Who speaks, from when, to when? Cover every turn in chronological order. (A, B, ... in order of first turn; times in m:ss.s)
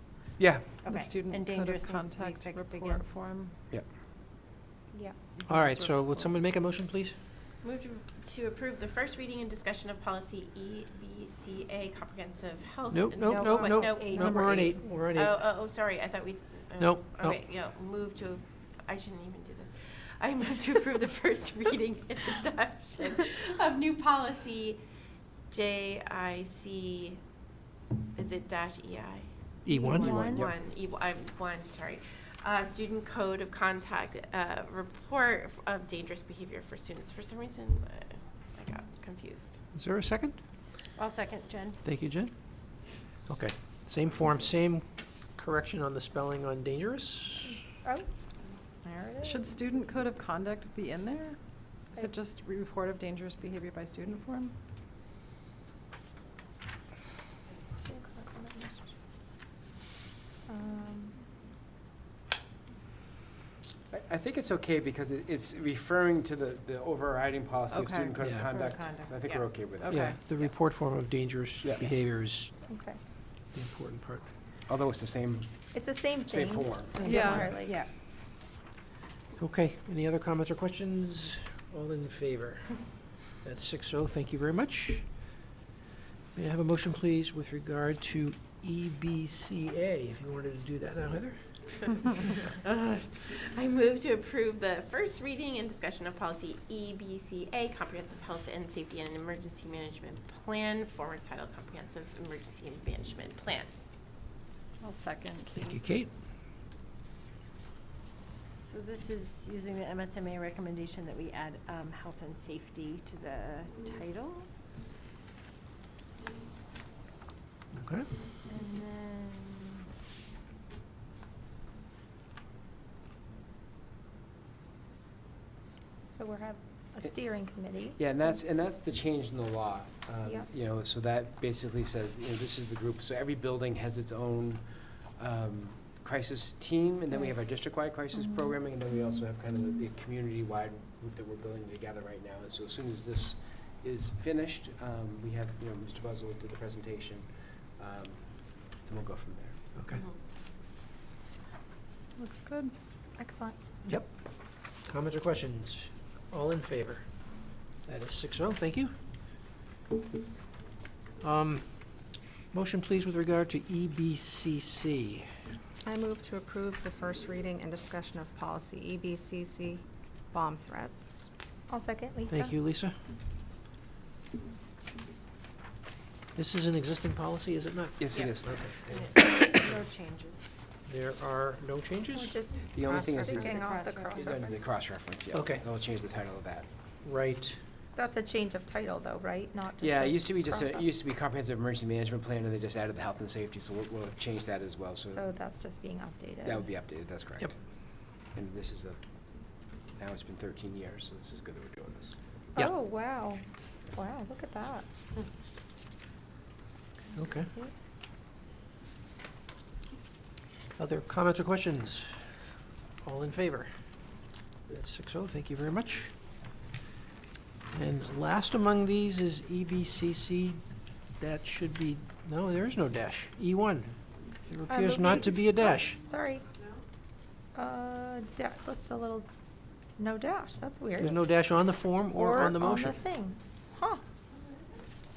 0:00.4-0:00.7 A
0:00.8-0:03.1 B
0:00.8-0:03.5 C
0:04.9-0:05.2 D
0:05.4-0:06.2 C
0:05.4-0:07.1 E
0:07.6-0:24.8 F
0:12.9-0:15.4 E
0:13.4-0:14.5 C
0:16.8-0:17.4 E
0:25.5-0:27.2 F
0:28.1-0:29.3 F
0:29.6-0:30.5 E
0:29.7-0:30.5 D
0:29.8-0:39.5 F
0:39.7-0:40.4 E
0:41.0-0:41.8 B
0:41.8-0:42.3 E
0:43.3-0:47.6 E
0:47.5-0:48.1 D
0:48.8-0:49.6 D
0:49.2-0:54.6 C
0:57.7-0:59.0 D
1:00.5-1:01.2 D
1:03.9-1:10.5 A
1:07.7-1:08.2 C
1:08.2-1:08.5 E
1:08.3-1:09.4 B
1:09.8-1:10.2 C
1:09.8-1:12.5 E
1:11.6-1:11.9 A
1:12.7-1:13.0 D
1:13.5-1:14.3 E
1:14.7-1:15.5 A
1:15.7-1:17.8 D
1:16.2-1:17.5 A
1:17.0-1:17.9 B
1:17.0-1:17.5 C
1:19.4-1:22.8 E
1:23.4-1:25.1 E
1:26.3-1:31.4 E
1:32.6-1:43.7 F
1:44.8-1:45.8 C
1:45.6-1:46.1 E
1:48.0-1:54.5 B
1:57.7-1:58.1 E
1:58.5-1:59.8 B
2:06.1-2:08.1 D
2:08.0-2:14.6 A
2:15.2-2:29.6 A
2:32.2-2:32.7 C
2:33.2-2:33.5 D
2:34.8-2:37.0 E
2:37.8-2:38.9 E
2:41.2-2:42.0 E
2:42.5-2:45.3 E
2:45.8-2:51.3 G
2:51.7-2:52.5 D
2:52.3-2:52.9 E
2:56.4-2:59.1 E
2:58.0-2:58.7 A
2:58.9-3:00.5 B
3:00.9-3:02.4 E
3:02.1-3:04.6 D
3:02.7-3:06.7 A
3:03.0-3:04.6 B
3:05.3-3:05.6 E
3:07.0-3:07.6 E
3:08.0-3:10.9 D
3:09.8-3:15.2 A
3:15.0-3:16.7 D
3:16.4-3:17.6 A
3:18.3-3:19.0 A
3:20.0-3:22.2 A
3:22.6-3:24.8 D
3:27.2-3:27.5 E
3:27.2-3:27.7 D
3:30.8-3:32.3 E
3:33.0-3:33.7 E
3:34.7-3:36.1 E
3:37.7-3:40.6 E
3:41.2-3:44.0 E
3:44.5-3:46.0 E
3:44.7-3:46.4 D
3:47.5-3:49.2 D
3:50.0-3:51.2 D
3:51.0-3:53.0 E
3:52.1-3:54.0 D